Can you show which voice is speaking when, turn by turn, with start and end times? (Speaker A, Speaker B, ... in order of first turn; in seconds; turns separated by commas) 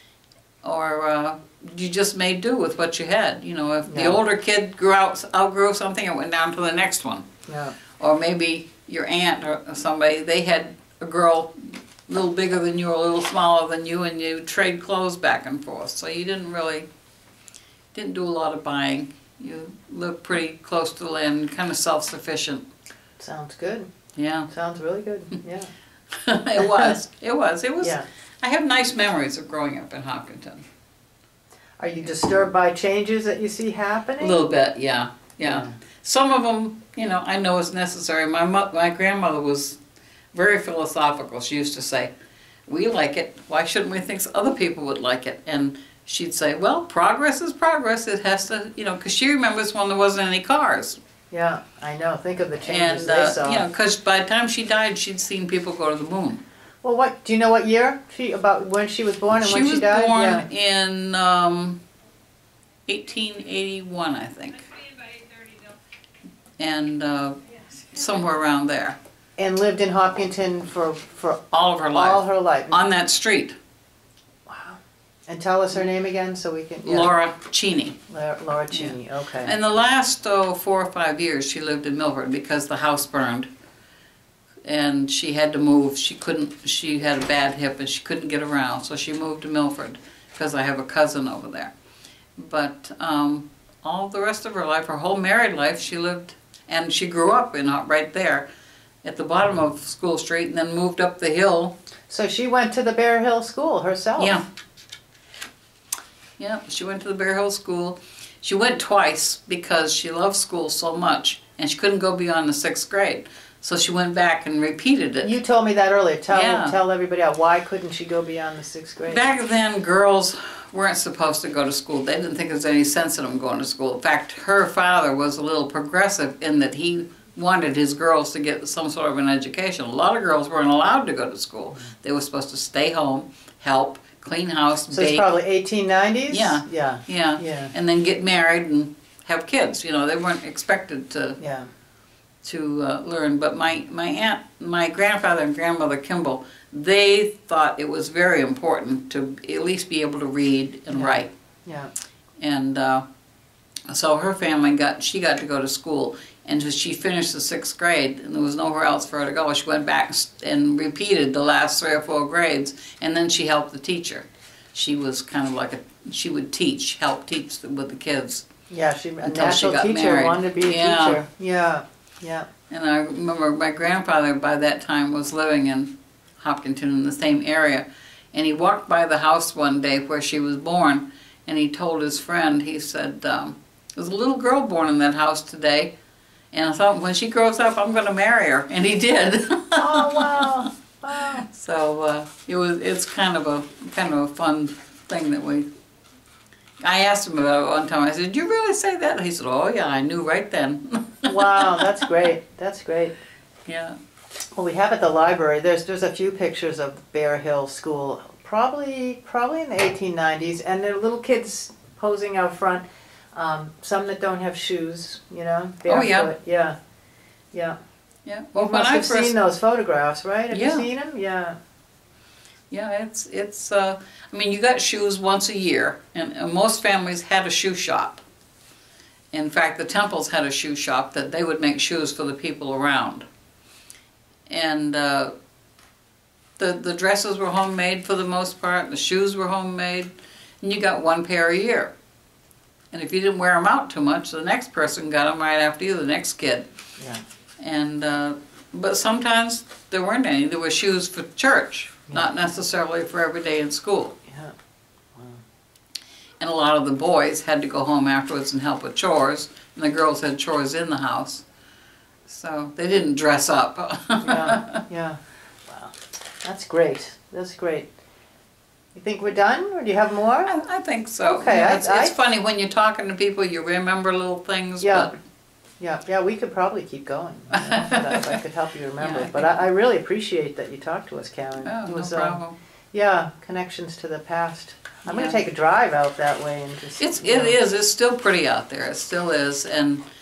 Speaker A: 0.6-7.3, Speaker B: 3.9-4.2, Speaker B: 7.5-7.8, Speaker A: 8.0-16.9, Speaker A: 17.9-22.6, Speaker B: 23.2-23.9, Speaker A: 24.1-24.5, Speaker B: 24.5-25.7, Speaker A: 26.1-30.6, Speaker B: 26.6-26.9, Speaker B: 31.8-34.4, Speaker A: 34.2-39.8, Speaker B: 35.4-35.8, Speaker A: 40.3-42.1, Speaker A: 42.7-51.0, Speaker B: 51.3-53.6, Speaker A: 52.6-56.4, Speaker B: 56.8-60.5, Speaker A: 59.3-61.8, Speaker A: 62.9-64.7, Speaker A: 66.6-67.4, Speaker A: 67.9-69.0, Speaker B: 69.4-71.4, Speaker A: 71.5-73.6, Speaker B: 71.9-72.8, Speaker B: 74.5-77.1, Speaker A: 76.8-78.0, Speaker B: 78.1-79.5, Speaker A: 78.7-83.5, Speaker A: 84.6-91.7, Speaker A: 92.4-98.5, Speaker A: 99.0-101.8, Speaker B: 102.1-104.4, Speaker A: 104.2-104.4, Speaker A: 106.4-115.3, Speaker B: 115.2-119.2, Speaker A: 116.3-116.8, Speaker A: 119.0-135.2, Speaker B: 134.9-137.7, Speaker A: 136.3-141.4, Speaker B: 141.4-141.7, Speaker A: 142.4-151.3, Speaker B: 150.9-151.9, Speaker A: 152.4-153.1, Speaker A: 153.9-168.5, Speaker B: 168.7-172.5, Speaker A: 169.2-171.2, Speaker A: 172.7-185.9, Speaker A: 186.5-195.7, Speaker B: 189.8-191.5, Speaker A: 196.8-202.3, Speaker B: 201.2-203.1, Speaker A: 203.7-204.0, Speaker B: 204.5-216.8, Speaker A: 215.9-216.3, Speaker A: 218.2-219.3, Speaker B: 218.5-221.6, Speaker A: 220.5-220.8, Speaker A: 222.7-228.2, Speaker A: 229.3-233.3, Speaker A: 234.5-235.3, Speaker A: 236.6-241.9, Speaker A: 242.9-246.7, Speaker A: 247.6-254.2, Speaker B: 254.3-254.5, Speaker B: 255.2-255.4, Speaker A: 256.4-261.4, Speaker A: 262.3-264.8, Speaker B: 264.2-267.9, Speaker B: 268.9-270.5, Speaker A: 270.4-275.1, Speaker B: 271.2-272.1, Speaker B: 274.8-275.1, Speaker B: 275.8-282.4, Speaker A: 277.5-278.4, Speaker A: 279.0-279.5, Speaker A: 281.6-282.6, Speaker B: 282.9-287.6, Speaker A: 285.0-285.4, Speaker A: 287.0-290.1